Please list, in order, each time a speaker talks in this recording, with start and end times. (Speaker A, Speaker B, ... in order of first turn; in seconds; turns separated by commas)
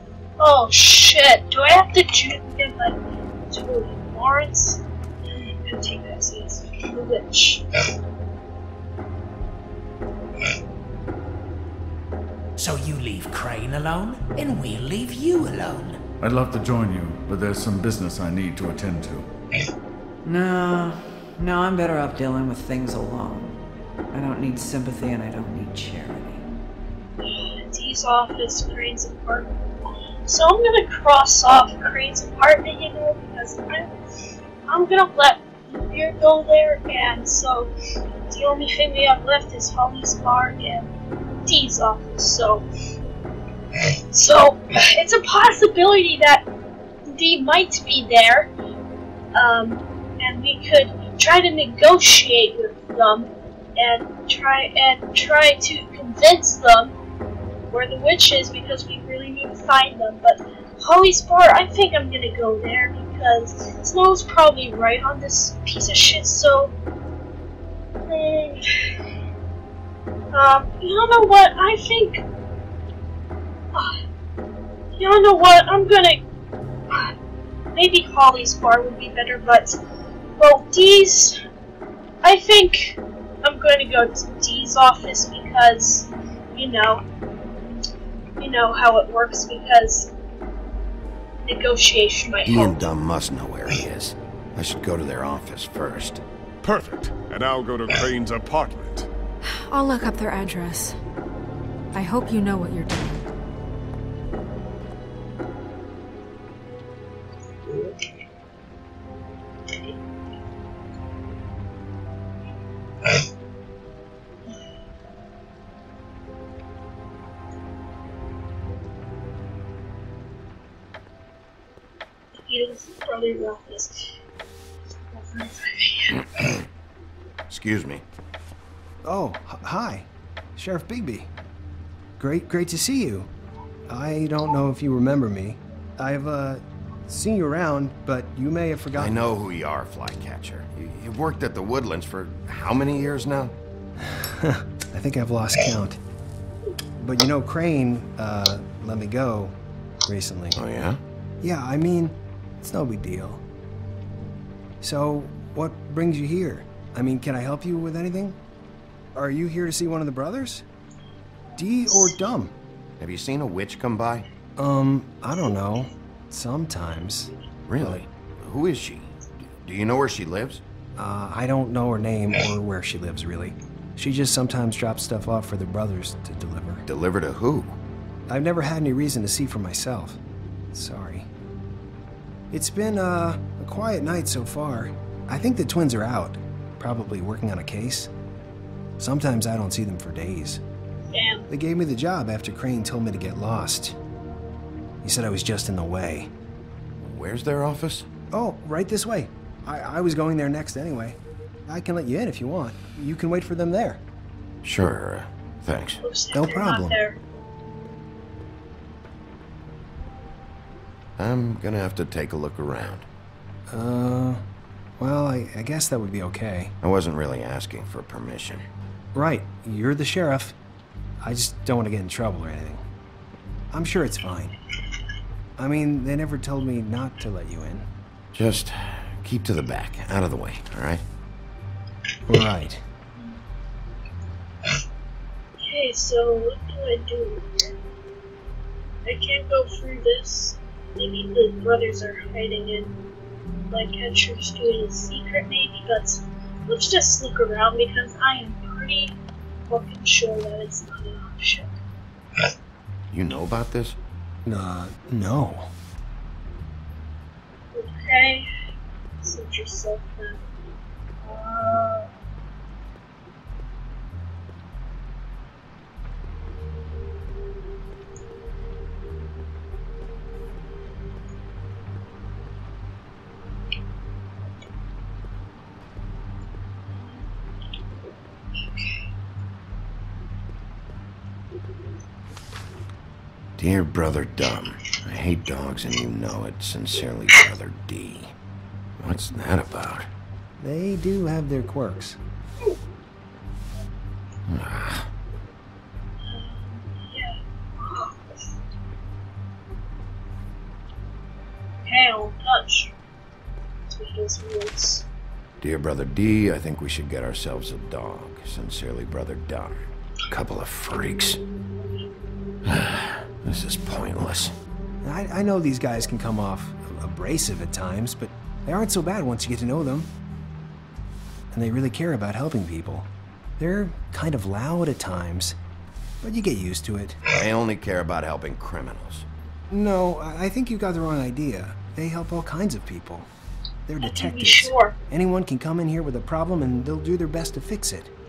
Speaker A: 0.4-7.6, Speaker B: 12.6-16.0, Speaker C: 16.2-19.3, Speaker D: 20.2-23.6, Speaker D: 24.1-26.4, Speaker A: 27.2-29.5, Speaker A: 30.2-33.9, Speaker A: 34.7-37.7, Speaker A: 38.3-40.9, Speaker A: 41.4-42.6, Speaker A: 44.1-46.5, Speaker A: 47.0-48.5, Speaker A: 49.3-56.9, Speaker A: 57.7-66.7, Speaker A: 68.1-68.9, Speaker A: 70.3-72.2, Speaker A: 73.7-74.0, Speaker A: 74.9-76.2, Speaker A: 77.7-79.8, Speaker A: 80.4-81.4, Speaker A: 82.2-87.0, Speaker A: 88.4-90.1, Speaker A: 91.4-92.9, Speaker E: 92.4-96.2, Speaker F: 96.6-99.1, Speaker G: 99.4-101.0, Speaker G: 101.9-103.2, Speaker A: 122.5-124.1, Speaker A: 125.1-126.2, Speaker E: 126.1-126.6, Speaker E: 127.5-128.0, Speaker H: 129.0-131.3, Speaker H: 132.2-133.3, Speaker H: 133.9-139.2, Speaker E: 138.9-143.5, Speaker H: 144.0-146.0, Speaker H: 147.0-149.5, Speaker H: 150.1-150.6, Speaker E: 150.5-151.0, Speaker H: 151.4-153.4, Speaker H: 154.8-158.4, Speaker H: 159.1-160.6, Speaker H: 161.6-162.5, Speaker E: 163.0-164.2, Speaker H: 164.6-168.0, Speaker E: 167.7-170.6, Speaker H: 171.0-176.8, Speaker E: 176.8-177.8, Speaker H: 178.3-180.2, Speaker H: 180.7-181.3, Speaker H: 182.5-188.1, Speaker H: 189.0-190.6, Speaker A: 191.1-191.4, Speaker H: 191.5-193.9, Speaker H: 195.0-196.3, Speaker E: 197.0-198.1, Speaker H: 198.3-204.0, Speaker E: 204.6-206.0, Speaker A: 206.0-207.2, Speaker H: 206.3-207.0, Speaker E: 211.2-213.1, Speaker H: 213.7-214.4, Speaker H: 215.0-216.7, Speaker E: 216.8-218.6, Speaker H: 219.1-220.6, Speaker H: 221.2-222.8, Speaker H: 223.7-224.5, Speaker H: 225.6-227.8, Speaker E: 228.3-231.0, Speaker H: 232.3-232.8, Speaker A: 235.6-237.7, Speaker A: 239.0-242.9, Speaker A: 243.7-249.2, Speaker A: 249.7-251.7, Speaker E: 253.1-254.0, Speaker H: 254.4-255.7, Speaker A: 257.7-258.5, Speaker A: 259.2-260.4, Speaker A: 261.2-262.1, Speaker A: 278.6-279.0, Speaker E: 283.6-288.3, Speaker E: 289.0-290.1, Speaker H: 290.6-292.2, Speaker E: 294.5-295.1, Speaker A: 296.2-298.2, Speaker A: 301.8-302.9, Speaker A: 303.9-305.0, Speaker E: 305.6-311.4, Speaker E: 312.6-314.5, Speaker H: 315.0-320.1, Speaker H: 321.5-323.1, Speaker H: 323.6-325.6, Speaker H: 326.2-327.2, Speaker E: 327.3-329.2, Speaker H: 329.7-333.3, Speaker H: 333.9-338.1, Speaker A: 334.0-334.9